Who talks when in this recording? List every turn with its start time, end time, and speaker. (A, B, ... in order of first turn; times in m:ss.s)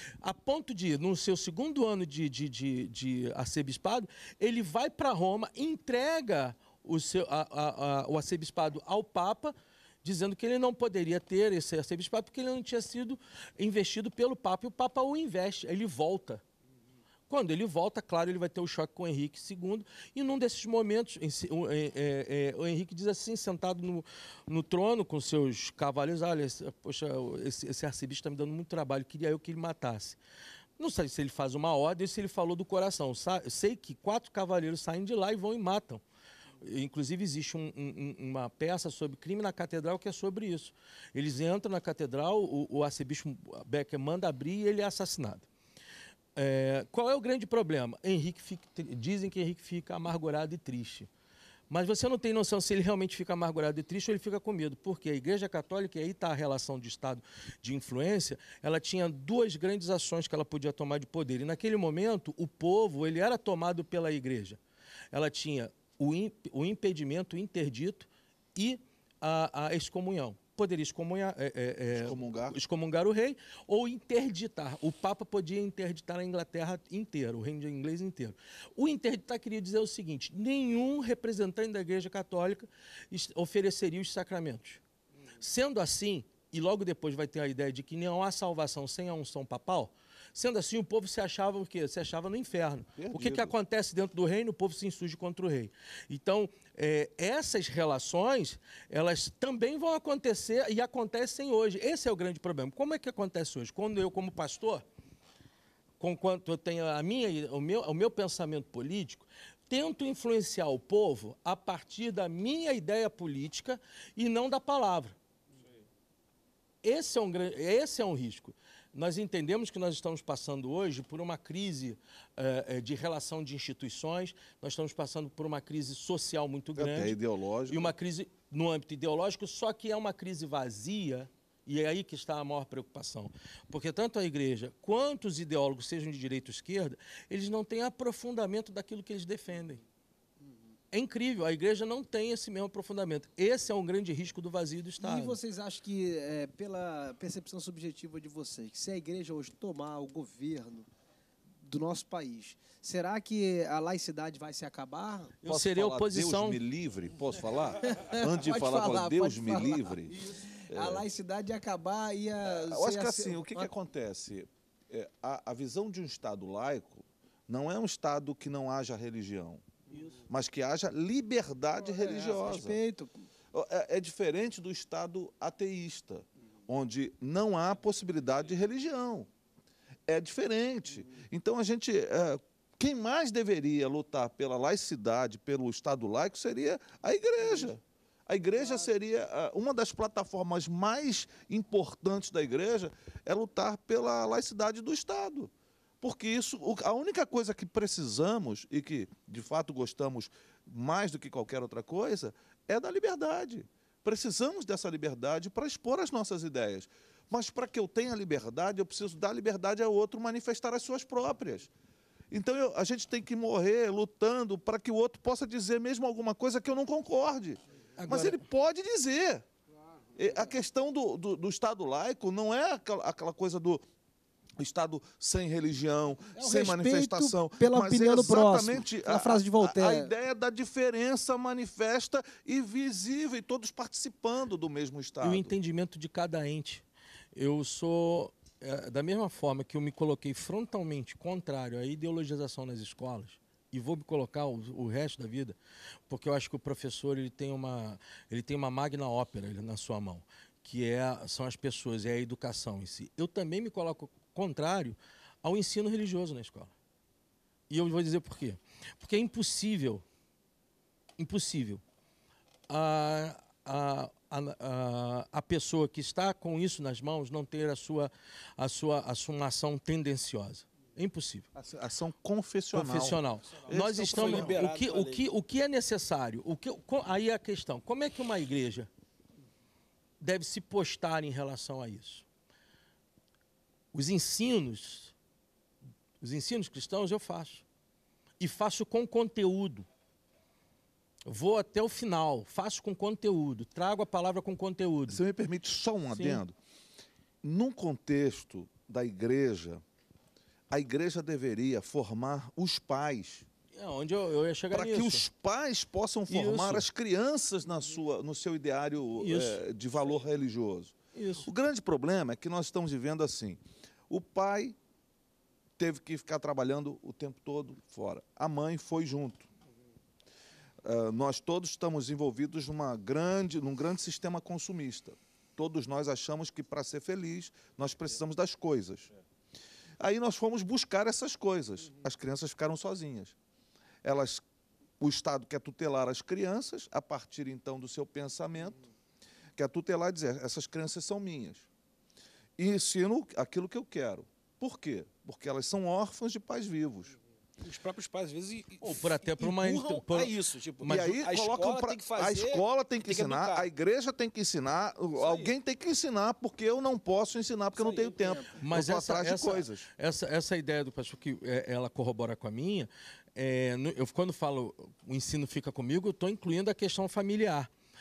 0:00.2-0:16.4 A
0:17.3-0:30.2 A
0:30.8-0:36.0 A
0:36.6-0:45.5 A
0:46.4-0:51.1 A
0:51.7-1:04.6 A
1:05.1-1:24.8 A
1:11.9-1:12.6 B
1:25.4-1:44.8 A
1:33.0-1:33.6 B
1:46.0-1:55.2 A
1:56.8-2:07.2 A
2:06.8-2:07.9 B
2:07.7-2:19.8 A
2:20.9-2:25.4 A
2:25.0-2:30.9 C
2:31.6-2:35.3 C
2:35.4-2:36.6 A
2:35.5-2:41.1 B
2:37.9-2:43.7 C
2:42.4-2:49.7 B
2:50.2-2:52.8 B
2:51.8-2:53.1 C
2:53.5-2:59.3 B
3:00.1-3:31.7 B
3:32.3-3:39.4 B
3:38.0-3:38.4 A
3:40.2-3:43.8 B
3:44.6-3:55.6 B
3:46.4-3:50.1 C
3:55.2-4:05.6 A
4:06.1-4:16.7 A
4:17.7-4:20.0 A
4:21.2-4:21.8 A
4:22.7-4:31.5 A
4:31.6-4:34.6 B
4:32.7-4:38.9 A
4:33.7-4:35.2 D
4:40.2-4:42.2 A
4:43.9-4:45.1 A
4:46.2-4:47.6 A
4:48.4-4:49.9 A
4:51.3-4:55.2 A
4:55.1-4:56.6 B
4:56.1-4:56.4 A
4:57.4-4:59.8 B
5:00.7-5:03.5 B
5:03.7-5:05.2 A
5:04.7-5:14.8 B
5:06.3-5:06.8 A
5:09.2-5:09.6 A
5:11.2-5:11.5 A
5:15.8-5:19.5 B
5:20.8-5:29.1 B
5:30.0-5:33.4 B
5:34.0-5:34.4 B
5:35.0-5:38.8 B
5:39.6-5:41.7 B
5:42.6-5:47.2 B
5:47.6-5:53.7 D
5:48.8-5:51.2 A
5:50.8-5:59.9 B
5:55.2-5:55.5 D
5:57.8-5:58.5 D
5:58.6-6:07.7 A